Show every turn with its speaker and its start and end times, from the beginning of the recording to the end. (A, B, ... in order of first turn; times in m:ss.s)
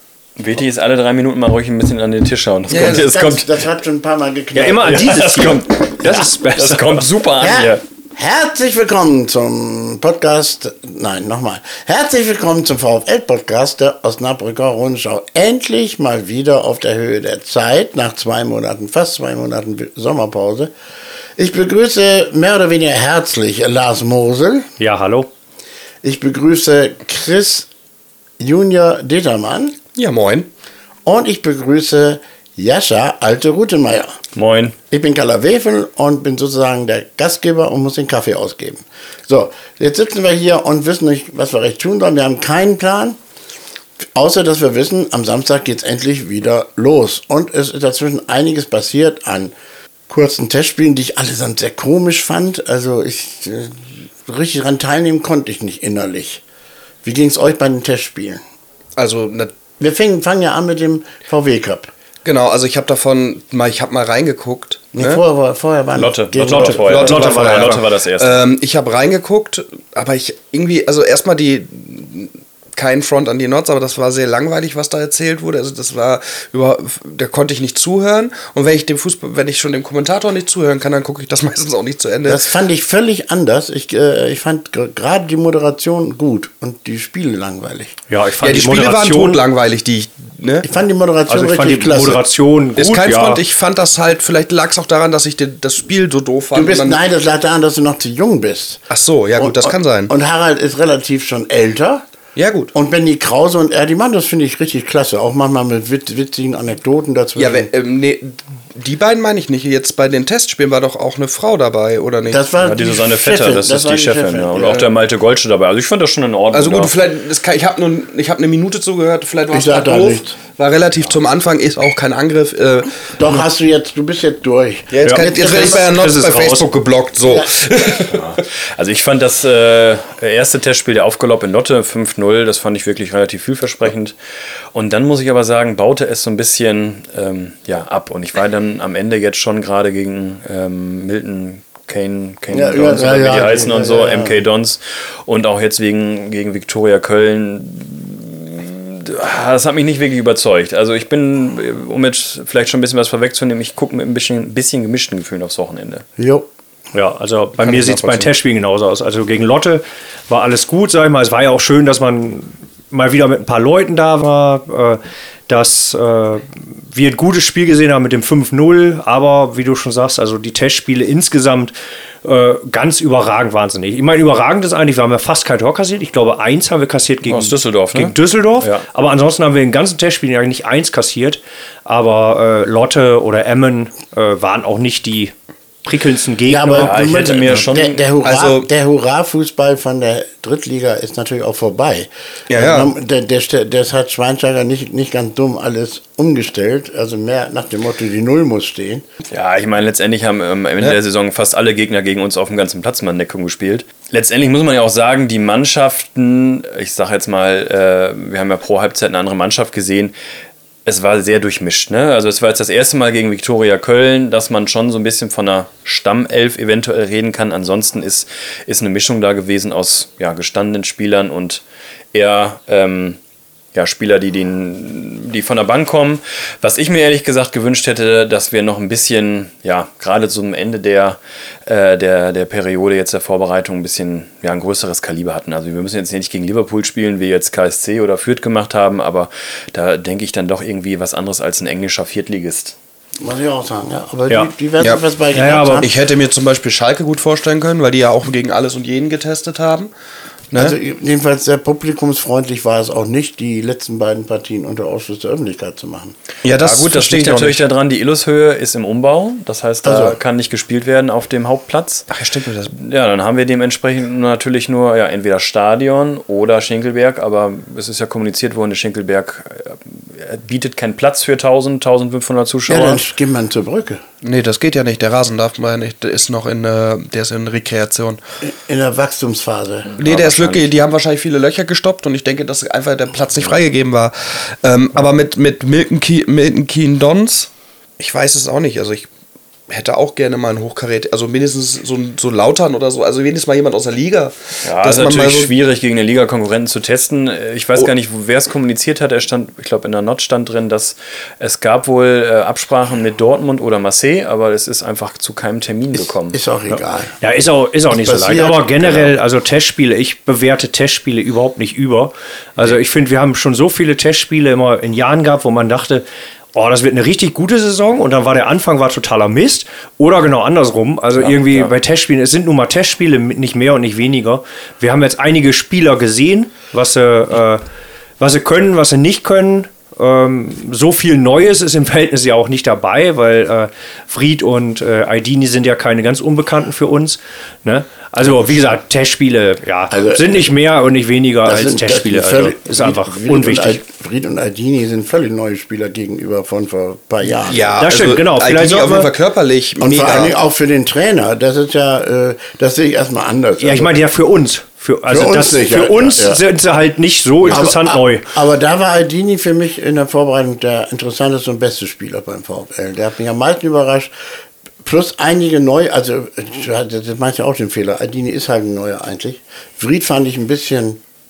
0:00.4-0:03.6 A
0:02.7-0:03.1 B
0:02.7-0:05.4 C
0:04.6-0:07.0 D
0:04.8-0:07.8 A
0:07.4-0:20.7 C
0:21.4-0:24.7 C
0:24.8-0:25.3 D
0:26.0-0:27.7 C
0:28.4-0:29.8 C
0:30.0-0:30.5 B
0:31.0-0:34.2 C
0:34.4-0:34.8 A
0:34.9-0:43.2 C
0:44.1-0:49.5 C
0:50.1-0:56.4 C
0:57.0-0:58.4 C
0:59.0-0:59.6 B
0:59.8-1:01.9 C
1:02.2-1:05.2 B
1:04.9-1:07.2 C
1:06.0-1:08.5 A
1:06.4-1:07.8 D
1:06.8-1:22.4 B
1:22.3-1:28.0 C
1:28.1-1:29.4 D
1:28.4-1:30.7 B
1:30.6-1:32.2 C
1:31.3-1:33.4 D
1:32.8-1:37.0 B
1:36.5-1:38.9 C
1:38.9-1:40.1 B
1:39.4-1:42.0 C
1:42.4-1:42.7 B
1:42.7-1:47.7 C
1:47.4-1:52.4 B
1:52.3-1:54.8 C
1:52.6-1:56.9 A
1:54.6-1:54.8 B
1:56.5-2:03.4 B
1:59.5-2:00.4 C
2:03.2-2:05.9 C
2:04.9-2:08.4 B
2:05.0-2:06.7 D
2:08.0-2:14.1 A
2:14.7-2:36.0 A
2:22.5-2:24.4 C
2:36.2-2:36.5 C
2:36.9-2:51.7 D
2:37.6-2:38.3 C
2:52.2-3:05.3 D
2:57.2-2:58.8 A
3:05.8-3:07.0 D
3:06.5-3:19.0 C
3:06.8-3:08.0 A
3:08.2-3:08.7 B
3:12.5-3:12.9 B
3:19.3-3:30.1 A
3:30.8-3:41.6 A
3:42.1-3:43.2 A
3:43.7-4:02.8 A
4:03.2-4:05.9 C
4:05.3-4:05.8 D
4:05.8-4:09.9 B
4:10.5-4:16.2 C
4:16.4-4:17.6 B
4:16.6-4:22.1 A
4:19.8-4:20.2 C
4:22.1-4:22.7 B
4:22.7-4:33.0 A
4:32.7-4:34.0 C
4:34.2-4:38.2 B
4:38.4-4:40.0 C
4:40.0-4:40.7 A
4:40.0-4:49.1 B
4:49.7-4:55.5 B
4:54.6-5:06.4 A
5:06.0-5:07.2 C
5:07.2-5:27.6 D
5:07.9-5:09.0 C
5:21.2-5:21.7 A
5:28.2-5:43.8 D
5:39.9-5:40.4 C
5:41.4-5:47.8 C
5:47.4-5:50.4 B
5:47.8-5:49.1 D
5:49.8-5:53.9 C
5:53.6-5:58.3 D
5:55.1-5:56.4 C
5:57.5-6:04.1 C
6:04.8-6:11.0 C